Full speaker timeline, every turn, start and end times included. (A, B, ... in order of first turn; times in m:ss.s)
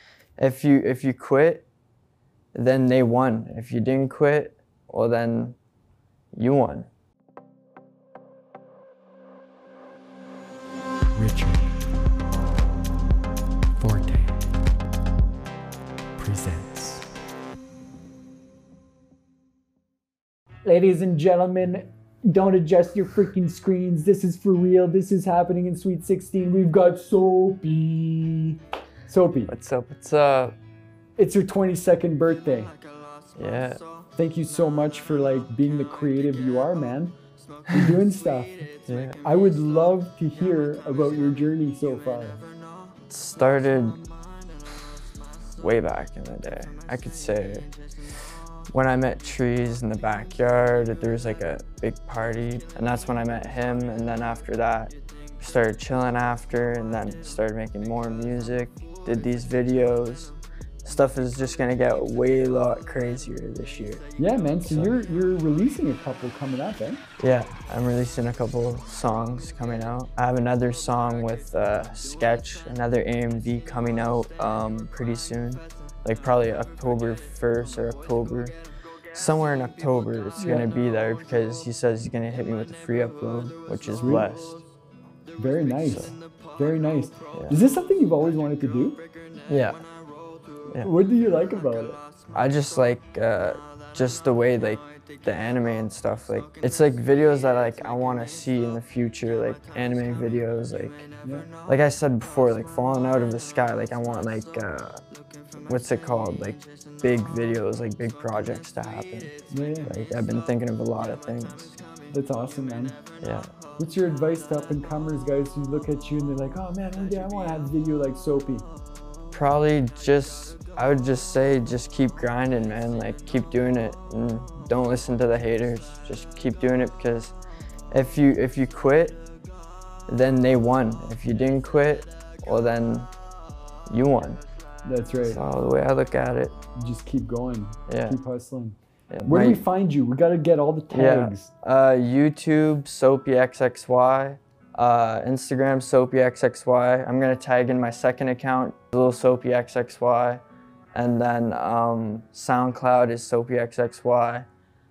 0:00.4-0:01.6 A
0:02.5-0:05.6 A
0:06.3-0:06.9 A
0:11.1-0:11.8 B
0:13.8-0:14.5 B
0:16.2-0:17.1 B
0:20.6-0:29.5 B
0:29.5-0:30.6 A
0:31.2-0:32.7 B
0:33.4-0:33.8 A
0:34.2-0:37.1 B
0:37.7-0:38.6 B
0:38.8-0:39.2 A
0:39.2-0:42.4 B
0:43.1-0:44.0 A
0:45.6-0:47.7 A
0:48.7-1:04.0 A
1:04.2-1:07.0 B
1:04.6-1:04.9 A
1:07.2-1:18.5 A
1:19.1-1:24.6 A
1:20.4-1:20.7 B
1:24.0-1:24.3 B
1:25.4-1:29.0 B
1:25.8-1:26.1 A
1:29.5-1:29.8 A
1:30.8-1:32.0 B
1:32.3-1:41.1 A
1:41.2-1:41.5 B
1:41.7-1:45.0 A
1:45.7-1:49.3 A
1:49.5-1:49.9 B
1:49.8-1:51.8 A
1:52.1-1:53.0 B
1:53.2-1:53.5 A
1:53.8-1:58.7 B
1:59.3-2:07.3 A
2:07.9-2:09.2 A
2:10.1-2:13.1 A
2:13.9-2:14.4 A
2:14.8-2:15.4 B
2:15.2-2:16.6 A
2:16.7-2:21.5 B
2:17.9-2:18.2 A
2:19.1-2:19.6 A
2:20.9-2:30.4 A
2:30.9-2:34.4 A